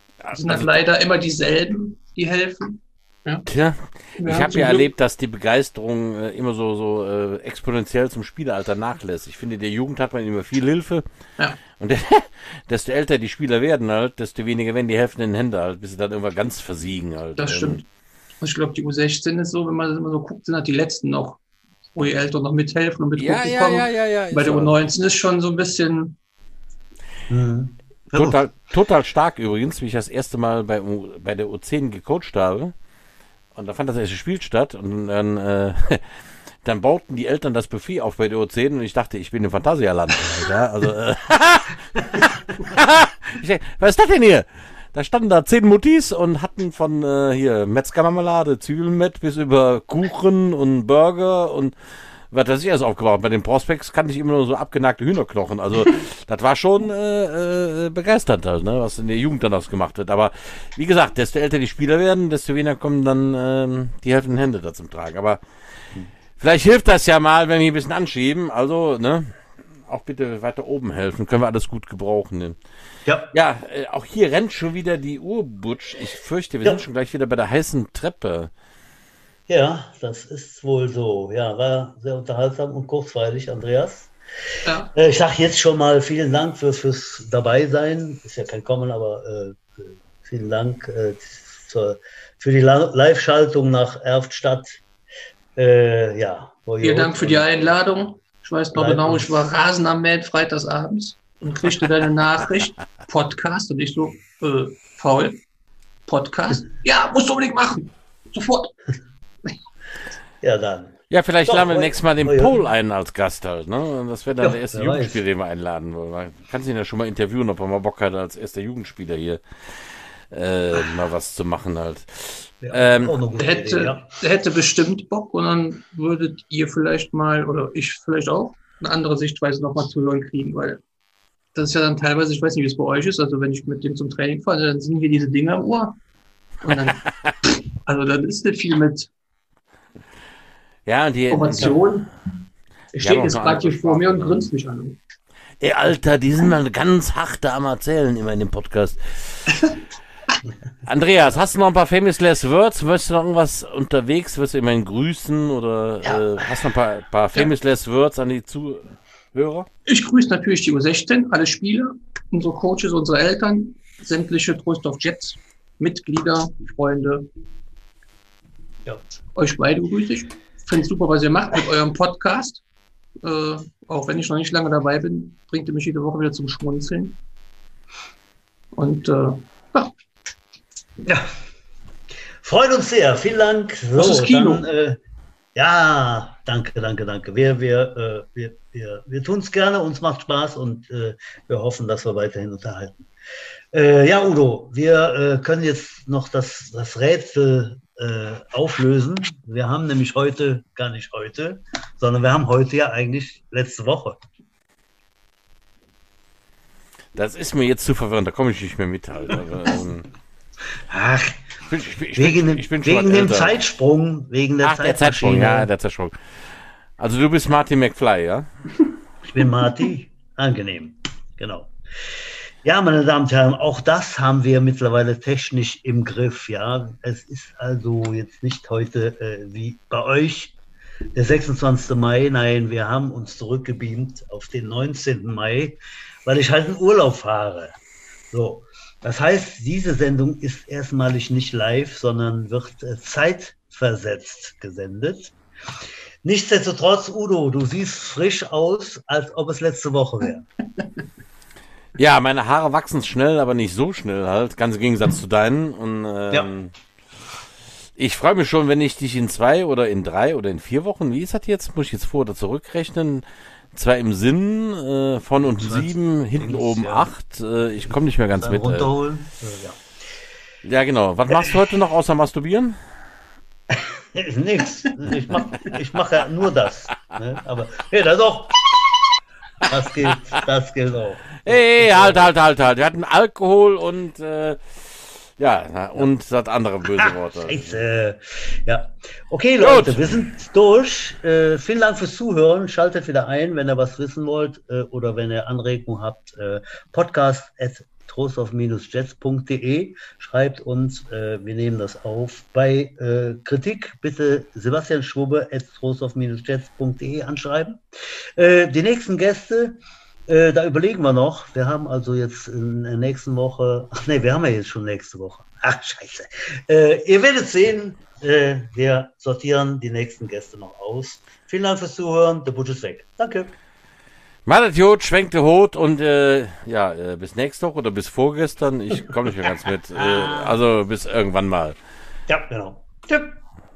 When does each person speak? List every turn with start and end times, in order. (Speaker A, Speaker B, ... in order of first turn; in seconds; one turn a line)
Speaker A: 0.2-0.8
Speaker B: 0.3-3.5
Speaker A: 3.5-11.0
Speaker B: 4.2-4.9
Speaker A: 11.7-17.8
Speaker B: 17.4-17.8
Speaker B: 18.4-21.4
Speaker B: 21.9-26.1
Speaker A: 23.1-24.8
Speaker C: 27.3-28.4
Speaker A: 28.1-32.7
Speaker A: 33.5-51.7
Speaker A: 52.3-65.4
Speaker A: 66.4-72.6
Speaker C: 73.0-73.3
Speaker A: 73.3-78.5
Speaker C: 79.5-84.1
Speaker B: 84.6-84.9
Speaker C: 84.9-94.8
Speaker C: 95.5-97.7
Speaker B: 96.8-105.4
Speaker C: 98.7-99.5
Speaker B: 106.1-108.7
Speaker C: 110.4-112.5
Speaker A: 111.1-123.2
Speaker C: 114.4-115.2
Speaker C: 122.6-124.0
Speaker B: 123.4-130.8
Speaker B: 131.5-136.0
Speaker B: 136.6-139.1
Speaker A: 140.8-141.9
Speaker B: 141.3-142.1
Speaker B: 142.9-145.0
Speaker A: 143.0-144.5
Speaker A: 145.6-149.6
Speaker A: 150.8-159.7
Speaker B: 159.8-167.2
Speaker B: 169.3-172.6
Speaker B: 173.2-177.2
Speaker B: 178.7-179.9
Speaker C: 182.4-185.0
Speaker B: 183.9-184.7
Speaker C: 185.5-193.1
Speaker C: 193.7-204.2
Speaker A: 207.1-210.1
Speaker C: 210.9-211.4
Speaker A: 211.7-213.6
Speaker C: 212.1-215.7
Speaker A: 214.6-216.2
Speaker A: 217.0-218.5
Speaker C: 219.2-230.5
Speaker C: 231.1-237.8
Speaker C: 238.3-245.3
Speaker C: 246.2-250.5
Speaker A: 252.0-256.7
Speaker A: 258.0-268.9
Speaker C: 265.4-267.1
Speaker C: 268.3-269.8
Speaker A: 270.6-272.8
Speaker C: 271.3-271.6
Speaker C: 273.7-278.9
Speaker C: 279.6-282.3
Speaker A: 281.4-287.8
Speaker C: 287.0-307.8
Speaker A: 289.6-290.0
Speaker C: 308.4-323.5
Speaker A: 324.4-331.8
Speaker C: 329.9-330.6
Speaker C: 332.3-333.3